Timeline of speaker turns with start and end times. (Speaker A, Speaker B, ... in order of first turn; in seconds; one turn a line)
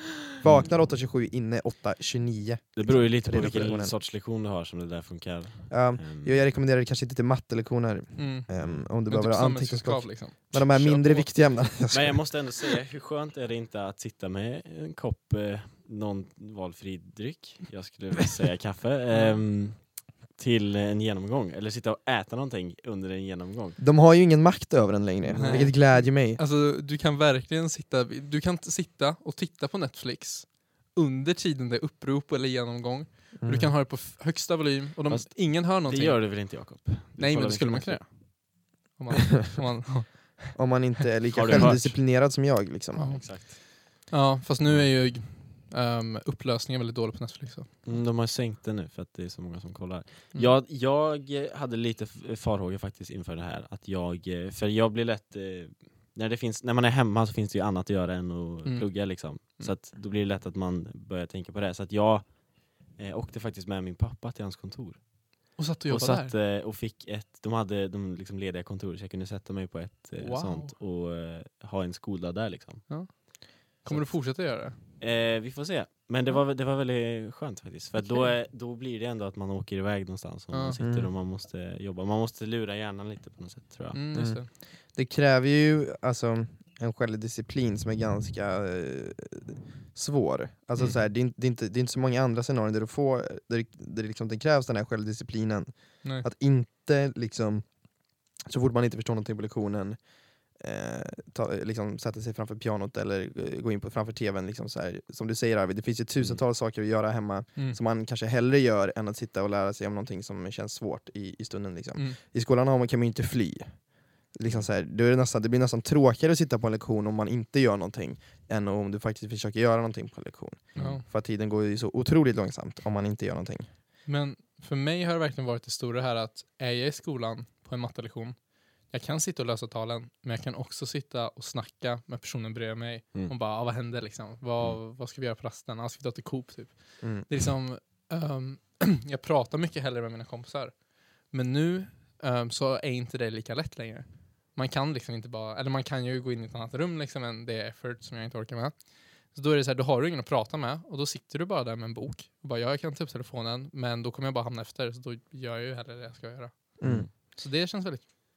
Speaker A: 0.4-4.0
Speaker B: 2.8-6.4
Speaker A: 5.7-12.2
Speaker C: 8.2-11.3
Speaker B: 8.5-8.8
Speaker B: 11.9-23.8
Speaker C: 19.1-19.4
Speaker A: 23.8-26.4
Speaker B: 25.3-25.7
Speaker C: 25.3-40.6
Speaker A: 33.4-33.7
Speaker B: 35.1-38.0
Speaker A: 40.5-43.2
Speaker B: 41.3-42.0
Speaker C: 41.5-41.8
Speaker C: 42.9-48.0
Speaker B: 43.2-43.5
Speaker B: 47.8-73.2
Speaker C: 58.6-59.8
Speaker C: 65.5-66.3
Speaker C: 70.2-70.7
Speaker C: 72.9-74.8
Speaker B: 73.9-84.0
Speaker C: 80.5-80.8
Speaker A: 80.8-81.1
Speaker C: 83.9-84.5
Speaker A: 84.1-97.7
Speaker A: 98.4-100.0
Speaker A: 100.5-123.7
Speaker B: 120.7-121.0
Speaker C: 120.8-121.0
Speaker C: 124.0-158.0
Speaker A: 137.0-137.3
Speaker A: 156.8-157.1
Speaker B: 156.8-157.1